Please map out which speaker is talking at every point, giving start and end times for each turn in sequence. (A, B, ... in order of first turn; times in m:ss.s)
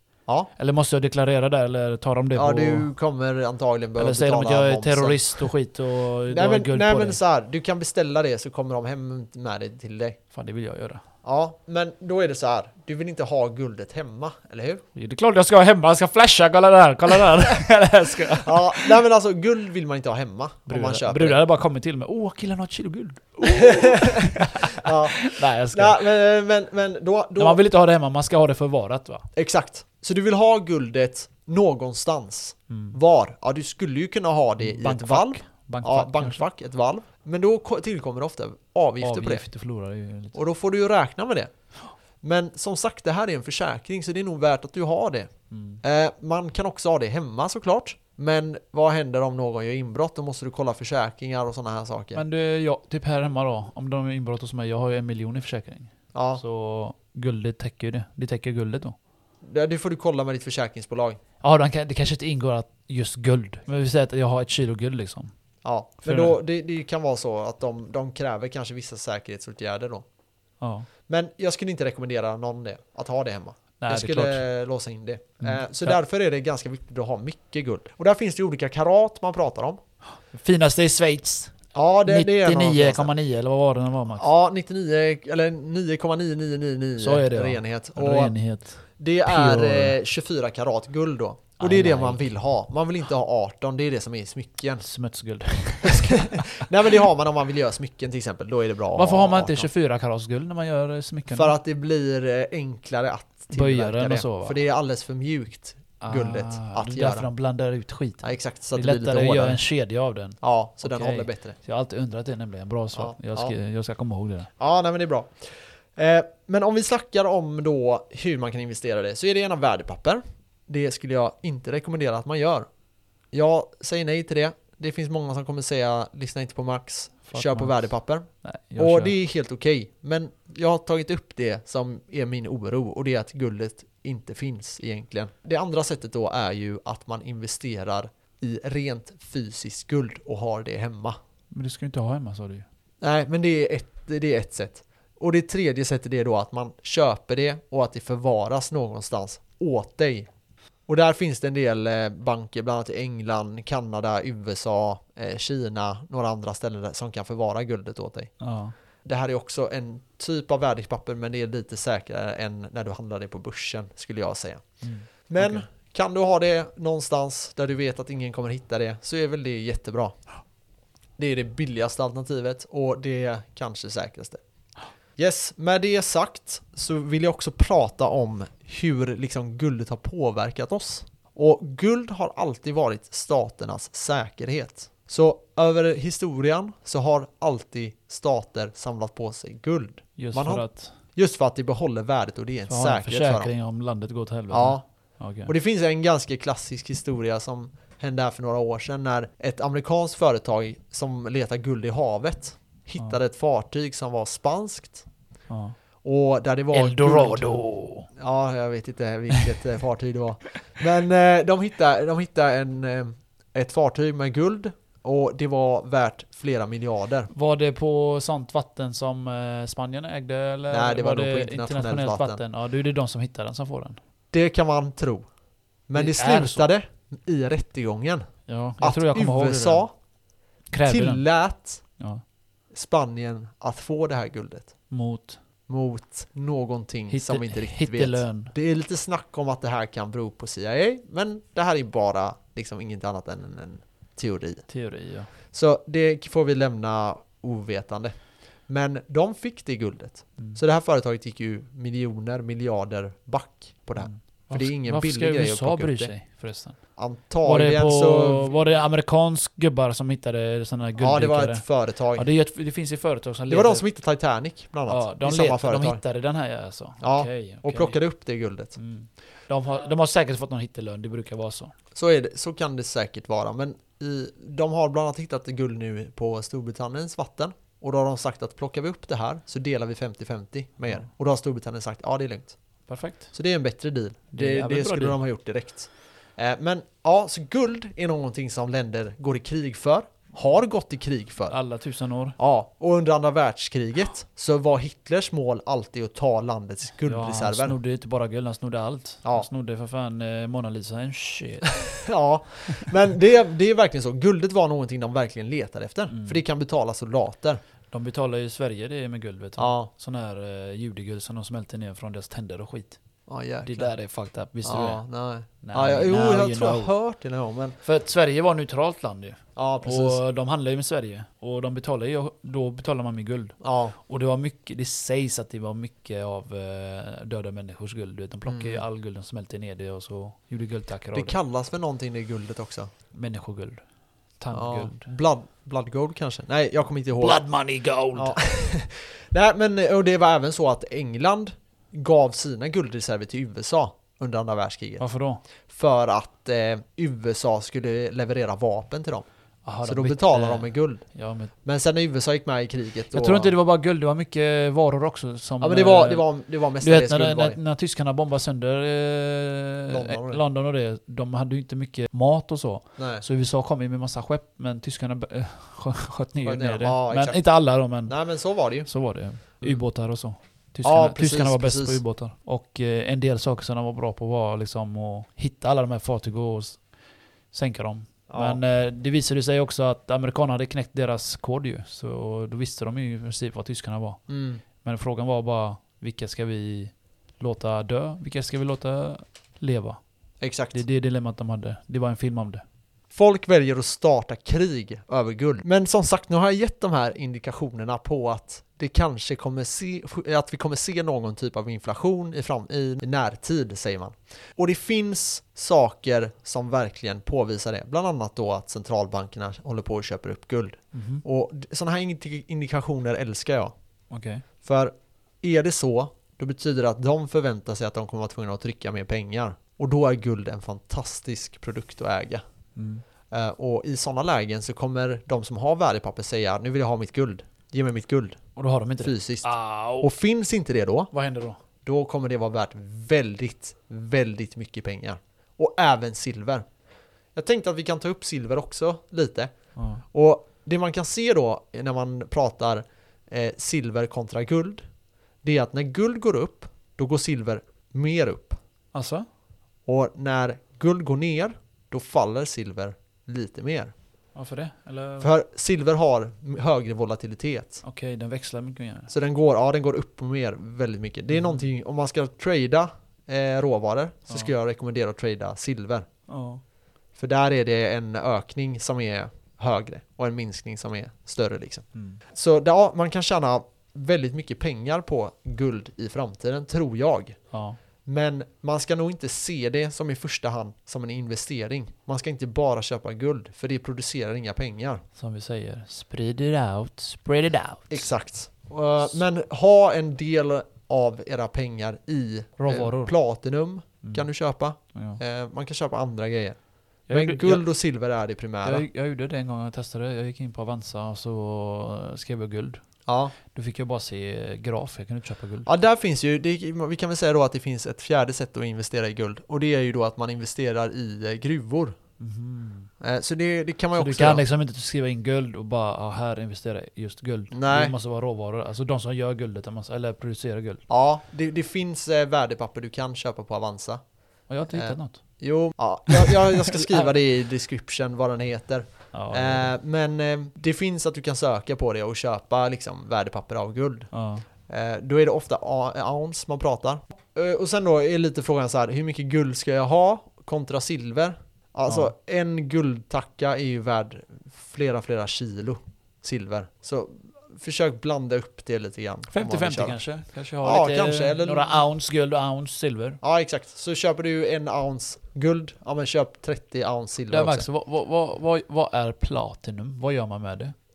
0:00.6-0:02.9 A
0:02.4-0:05.5 B
0:04.0-0:07.2 A
0:06.3-0:10.2 B
0:10.3-0:11.0 A
0:11.2-0:14.8 B
0:14.9-0:19.0 A
0:18.4-0:21.4 B
0:20.7-0:26.0 A
0:23.4-0:27.6 B
0:27.4-0:29.3 A
0:29.3-0:39.4 B
0:32.7-0:33.0 A
0:34.6-0:36.4 A
0:39.0-0:40.4 A
0:40.3-0:41.5 B
0:42.2-0:45.3 B
0:45.5-0:45.8 A
0:45.8-0:52.2 B
0:52.1-0:59.0 A
0:56.1-0:56.4 B
0:59.4-1:01.2 B
1:01.4-1:05.3 A
1:05.6-1:10.0 B
1:06.0-1:06.4 A
1:10.6-1:10.9 A
1:11.1-1:19.8 B
1:13.8-1:14.4 A
1:15.4-1:16.0 A
1:20.3-1:24.3 A
1:21.7-1:23.1 B
1:24.1-1:28.3 B
1:27.0-1:30.0 A
1:29.0-1:34.8 B
1:31.6-1:32.3 A
1:34.8-1:36.6 A
1:35.8-1:39.7 B
1:38.9-1:41.5 A
1:41.3-1:47.3 B
1:43.5-1:44.6 A
1:46.0-1:54.5 A
1:48.2-1:49.6 B
1:50.4-1:51.6 B
1:52.9-1:53.5 B
1:54.6-2:02.7 B
2:03.3-2:21.2 B
2:07.3-2:07.9 A
2:08.4-2:09.1 A
2:21.5-2:22.6 A
2:23.0-2:30.3 B
2:30.9-2:38.3 B
2:38.4-2:38.7 A
2:39.0-2:44.6 B
2:44.8-2:45.6 A
2:45.3-2:50.2 B
2:51.2-2:54.4 B
2:55.2-3:13.5 B
3:10.2-3:10.9 A
3:12.7-3:15.5 A
3:14.5-3:14.8 B
3:15.4-3:25.1 B
3:25.5-3:25.8 A
3:26.0-3:27.5 B
3:26.7-3:28.1 A
3:28.2-3:37.3 B
3:37.3-3:44.0 A
3:40.7-3:42.4 B
3:44.3-3:45.3 B
3:45.9-3:48.3 B
3:45.9-3:46.6 A
3:48.5-3:49.8 A
3:48.8-3:49.9 B
3:50.7-3:51.2 A
3:50.8-3:51.8 B
3:52.7-3:54.7 B
3:54.9-3:55.4 A
3:55.7-4:04.6 B
3:57.1-3:58.5 A
4:04.7-4:05.3 A
4:05.5-4:16.1 B
4:14.0-4:16.8 A
4:17.0-4:18.5 B
4:17.4-4:23.8 A
4:21.0-4:22.2 B
4:23.5-4:26.0 B
4:24.9-4:28.0 A
4:27.0-4:28.8 B
4:28.8-4:31.7 A
4:31.9-4:42.6 B
4:42.9-4:43.3 A
4:43.3-4:51.6 B
4:44.3-4:45.2 A
4:51.5-4:52.4 A
4:52.4-4:57.8 B
4:57.0-5:01.8 A
5:01.7-5:07.6 B
5:06.1-5:06.4 A
5:07.9-5:13.0 A
5:09.6-5:09.9 B
5:13.3-5:13.9 B
5:13.6-5:15.0 A
5:14.6-5:17.8 B
5:15.6-5:16.9 A
5:17.8-5:23.5 A
5:19.6-5:20.2 B
5:23.6-5:24.0 B
5:24.1-5:31.4 A
5:28.5-5:28.8 B
5:31.1-5:32.9 B
5:33.1-5:33.8 A
5:34.4-5:35.1 A
5:34.5-5:37.4 B
5:37.2-5:38.4 A
5:38.1-5:45.0 B
5:45.0-5:45.4 A
5:45.7-5:49.2 B
5:49.6-5:51.5 A
5:49.8-5:51.0 B
5:51.6-5:53.5 B
5:53.1-5:56.2 A
5:55.6-5:57.6 B
5:56.8-6:08.1 A
5:59.9-6:00.4 B
6:03.0-6:03.2 B
6:06.4-6:07.4 B
6:08.1-6:08.9 B
6:08.8-6:16.8 A
6:10.8-6:12.0 B
6:17.5-6:24.2 A
6:18.3-6:18.6 B
6:24.3-6:24.6 B
6:24.8-6:30.0 A
6:30.4-6:30.8 B
6:30.7-6:32.6 A
6:33.1-6:53.7 B
6:50.9-6:51.2 A
6:54.1-6:54.4 A
6:54.6-7:02.4 B
7:02.7-7:03.0 A
7:03.3-7:08.4 B
7:08.6-7:10.1 A
7:09.0-7:11.1 B
7:11.1-7:11.6 A
7:11.8-7:16.6 B
7:17.3-7:19.5 B
7:19.8-7:20.0 A
7:20.1-7:24.8 B
7:25.4-7:28.6 B
7:28.9-7:29.3 A
7:29.8-7:33.9 B
7:34.3-7:35.3 A
7:35.2-7:37.8 B
7:37.8-7:39.1 A
7:39.1-7:46.1 B
7:41.4-7:41.6 A
7:46.3-7:46.6 A
7:47.2-7:57.4 B
7:51.9-7:52.2 A
7:57.5-7:57.8 A
7:58.0-8:05.0 B
8:05.2-8:08.1 A
8:07.9-8:16.6 B
8:12.6-8:13.1 A
8:14.9-8:15.2 A
8:17.1-8:17.6 A
8:17.1-8:18.8 B
8:18.6-8:22.8 A
8:23.0-8:23.4 B
8:23.4-8:25.7 A
8:25.6-8:31.9 B
8:32.2-8:32.9 A
8:33.0-8:34.4 B
8:34.0-8:40.8 A
8:37.5-8:37.9 B
8:40.9-8:44.0 B
8:44.5-8:45.2 A
8:44.7-8:54.1 B
8:46.1-8:47.1 A
8:49.1-8:49.7 A
8:54.1-8:54.4 A
8:54.7-9:10.0 B
9:01.9-9:02.1 A
9:09.3-9:13.2 A
9:10.6-9:11.7 B
9:13.2-9:17.7 B
9:17.3-9:20.7 A